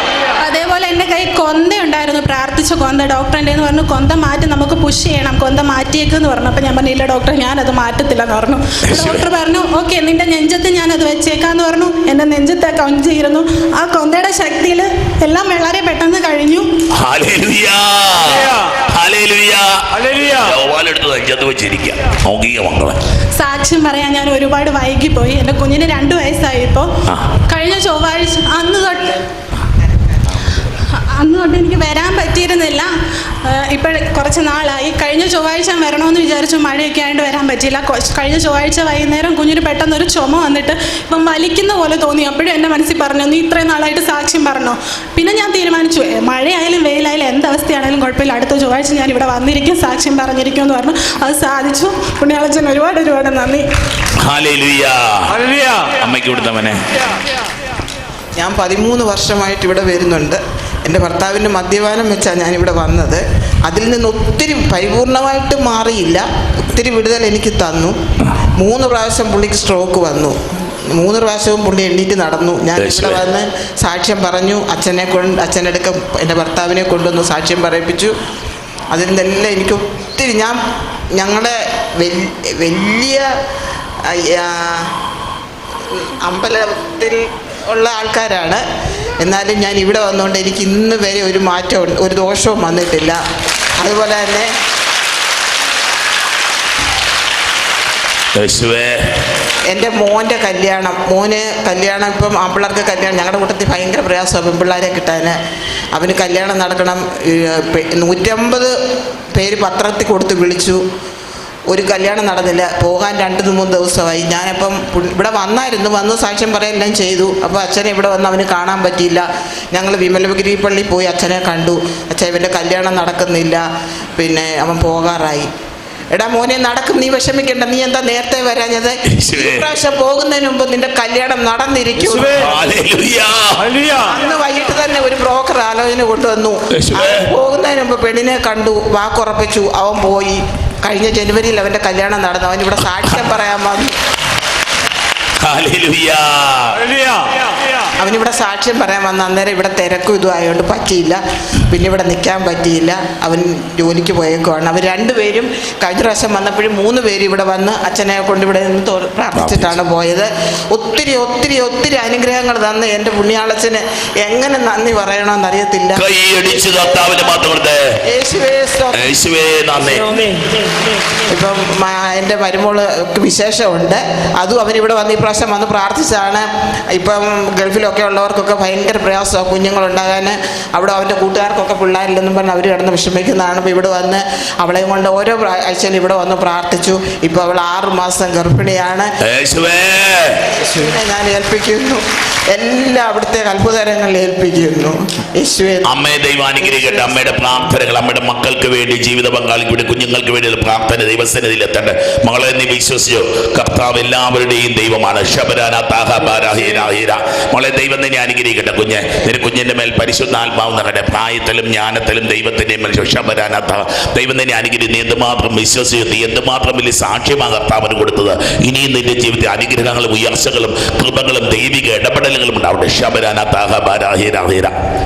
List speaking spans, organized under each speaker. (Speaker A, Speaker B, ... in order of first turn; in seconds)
Speaker A: 0.4-16.7, 23.4-26.9, 27.4-29.2, 30.9-32.9, 33.4-53.7
Speaker B: 8.9-9.2, 17.0-23.0, 27.1-27.4, 54.2-55.4, 56.0-56.8, 72.8-73.2, 98.4-99.0, 129.2-129.7, 132.3-133.9, 136.8-137.2, 145.4-147.0, 159.3-159.8, 165.9-167.8, 168.9-170.1, 189.2-190.4, 195.9-224.8
Speaker C: 58.4-68.0, 68.6-78.1, 78.9-80.6, 81.2-83.3, 84.1-85.0, 85.9-88.6, 89.2-93.2, 93.8-94.5, 99.7-105.4, 106.0-108.7, 109.3-110.8, 111.7-123.7, 124.2-125.5, 126.1-132.4, 133.9-143.9, 148.0-166.0, 168.1-169.1, 171.3-189.1, 190.6-195.9, 196.6-197.3